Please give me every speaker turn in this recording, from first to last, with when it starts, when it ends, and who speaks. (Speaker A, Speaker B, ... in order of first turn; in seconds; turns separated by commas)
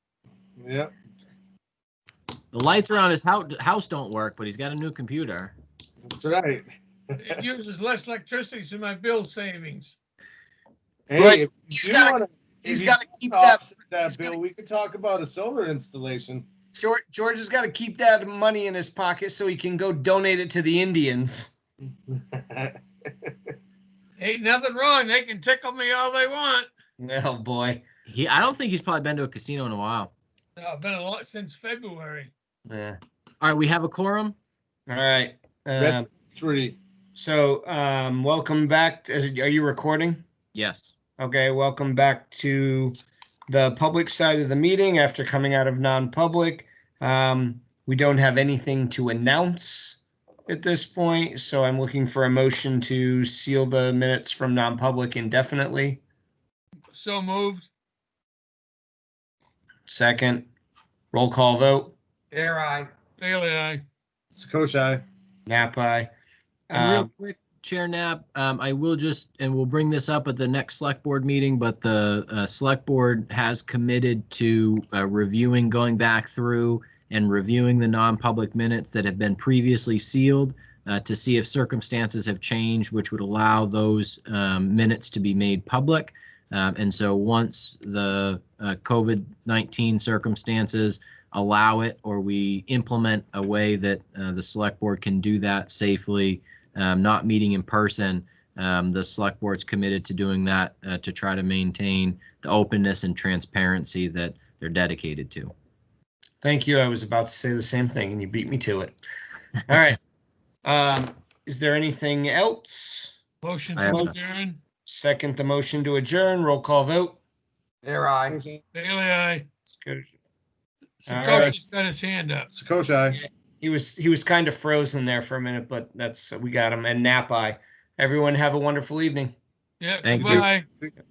Speaker A: 0.6-0.9, Speaker B: 2.5-5.5, Speaker A: 6.0-7.2, Speaker C: 7.2-9.9, Speaker A: 11.1-16.5, Speaker D: 11.2-14.4, Speaker D: 16.8-21.5, Speaker A: 22.3-22.7, Speaker C: 24.2-26.7, Speaker D: 27.0-27.8, Speaker B: 28.1-30.1, Speaker C: 30.6-32.3, Speaker D: 32.7-33.0, Speaker B: 33.4-34.4, Speaker D: 34.9-36.1, Speaker A: 35.8-36.8, Speaker D: 37.1-40.2, Speaker B: 40.5-40.9, Speaker D: 41.2-43.0, Speaker D: 43.5-56.0, Speaker C: 56.9-57.7, Speaker D: 59.9-60.5, Speaker D: 61.1-62.9, Speaker C: 63.2-63.8, Speaker A: 64.3-65.0, Speaker D: 65.5-66.1, Speaker D: 66.7-67.1, Speaker B: 66.7-105.5, Speaker D: 106.4-109.0, Speaker D: 109.7-110.0, Speaker D: 110.7-113.2, Speaker C: 113.4-114.6, Speaker B: 113.8-114.1, Speaker D: 114.9-117.2, Speaker D: 117.8-118.4, Speaker A: 118.3-118.6, Speaker C: 118.7-119.5, Speaker D: 119.7-120.1, Speaker C: 121.0-122.5, Speaker D: 121.1-121.6, Speaker A: 121.2-121.6, Speaker A: 122.5-123.2, Speaker D: 123.1-129.3, Speaker C: 129.8-130.7, Speaker B: 130.0-130.4, Speaker A: 130.2-130.9